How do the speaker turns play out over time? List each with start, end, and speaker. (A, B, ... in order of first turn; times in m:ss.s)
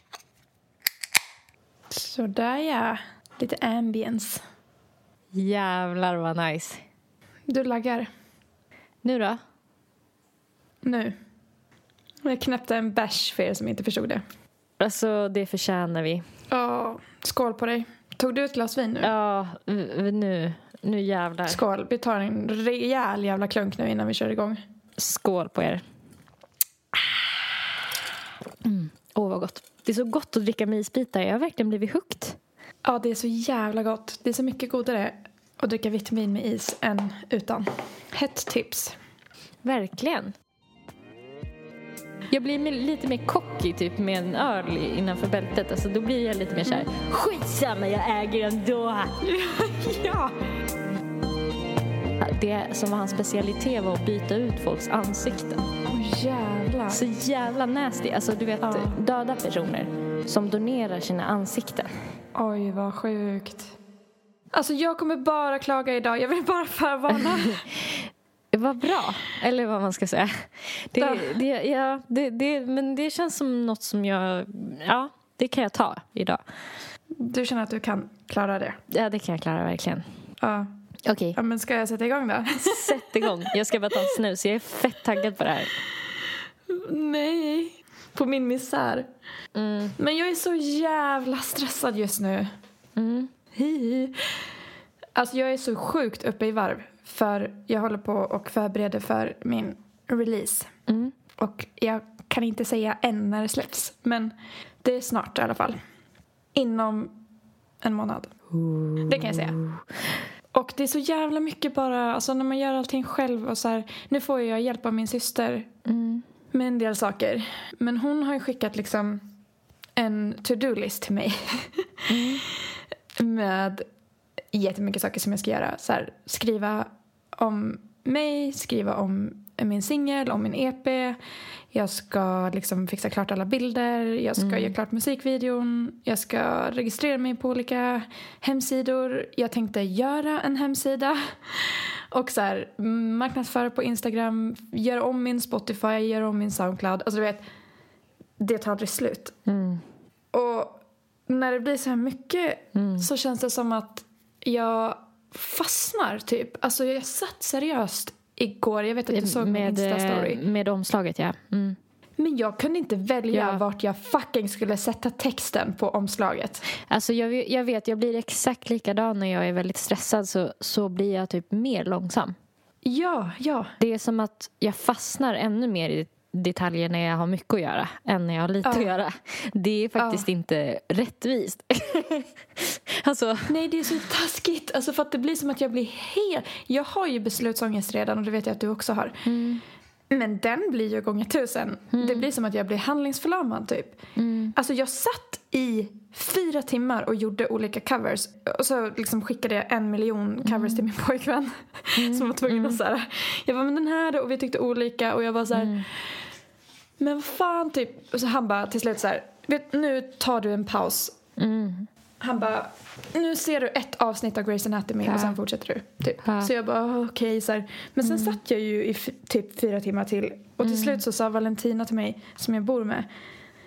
0:01.9-0:04.4 A
0:05.3-0:06.8 B
0:07.5-0:08.1 A
0:09.0-0:09.4 B
0:10.8-0:11.1 A
0:12.2-0:14.2 A
0:14.8-0:16.2 B
0:16.5-0:19.1 A
0:19.0-0:21.6 B
0:21.5-0:24.6 A
0:25.0-0:25.8 B
0:28.6-0:32.4 B
0:32.8-0:39.0 A
0:39.6-0:40.3 B
0:42.3-0:49.1 B
0:49.2-0:50.4 A
0:52.2-0:55.6 B
0:55.9-0:57.0 A
0:56.9-1:01.9 B
0:58.6-0:59.0 A
1:02.3-1:03.7 A
1:04.5-1:07.6 A
1:07.1-1:16.4 B
1:11.0-1:11.4 A
1:17.2-1:18.8 A
1:18.9-1:20.0 B
1:20.4-1:20.7 A
1:21.0-1:21.4 B
1:21.3-1:24.0 A
1:22.6-1:25.7 B
1:26.7-1:29.1 A
1:29.5-1:29.9 B
1:30.0-1:32.5 A
1:33.0-1:33.3 B
1:33.5-1:34.3 A
1:35.1-1:40.7 A
1:40.9-1:41.1 B
1:41.4-1:45.8 A
1:46.5-1:47.1 A
1:47.8-1:48.3 A
1:48.5-1:49.8 B
1:49.0-1:49.6 A
1:50.5-1:55.7 A
1:55.8-1:56.2 B
1:56.5-1:59.2 A
2:00.0-2:01.8 A
2:02.1-2:02.4 B
2:03.2-2:03.9 A
2:04.5-2:11.2 A
2:11.7-2:27.4 A
2:14.4-2:14.7 B
2:28.4-2:29.3 A
2:29.4-2:29.8 B
2:30.3-2:40.4 A
2:32.7-2:33.0 B
2:39.1-2:41.8 B
2:42.2-2:46.6 A
2:43.3-2:43.6 B
2:46.9-2:52.4 B
2:52.8-2:53.7 A
2:53.8-3:03.6 B
2:58.6-2:58.9 A
3:00.0-3:00.2 A
3:03.5-3:09.2 A
3:09.2-3:09.6 B
3:10.1-3:14.0 A
3:11.9-3:12.3 B
3:14.2-3:14.5 B
3:14.5-3:25.9 A
3:20.4-3:20.8 B
3:22.0-3:22.8 B
3:25.5-3:25.8 B
3:27.0-3:31.1 A
3:31.4-3:31.9 B
3:32.2-3:43.1 A
3:35.0-3:35.4 B
3:36.2-3:36.5 B
3:38.0-3:38.4 B
3:40.6-3:41.0 B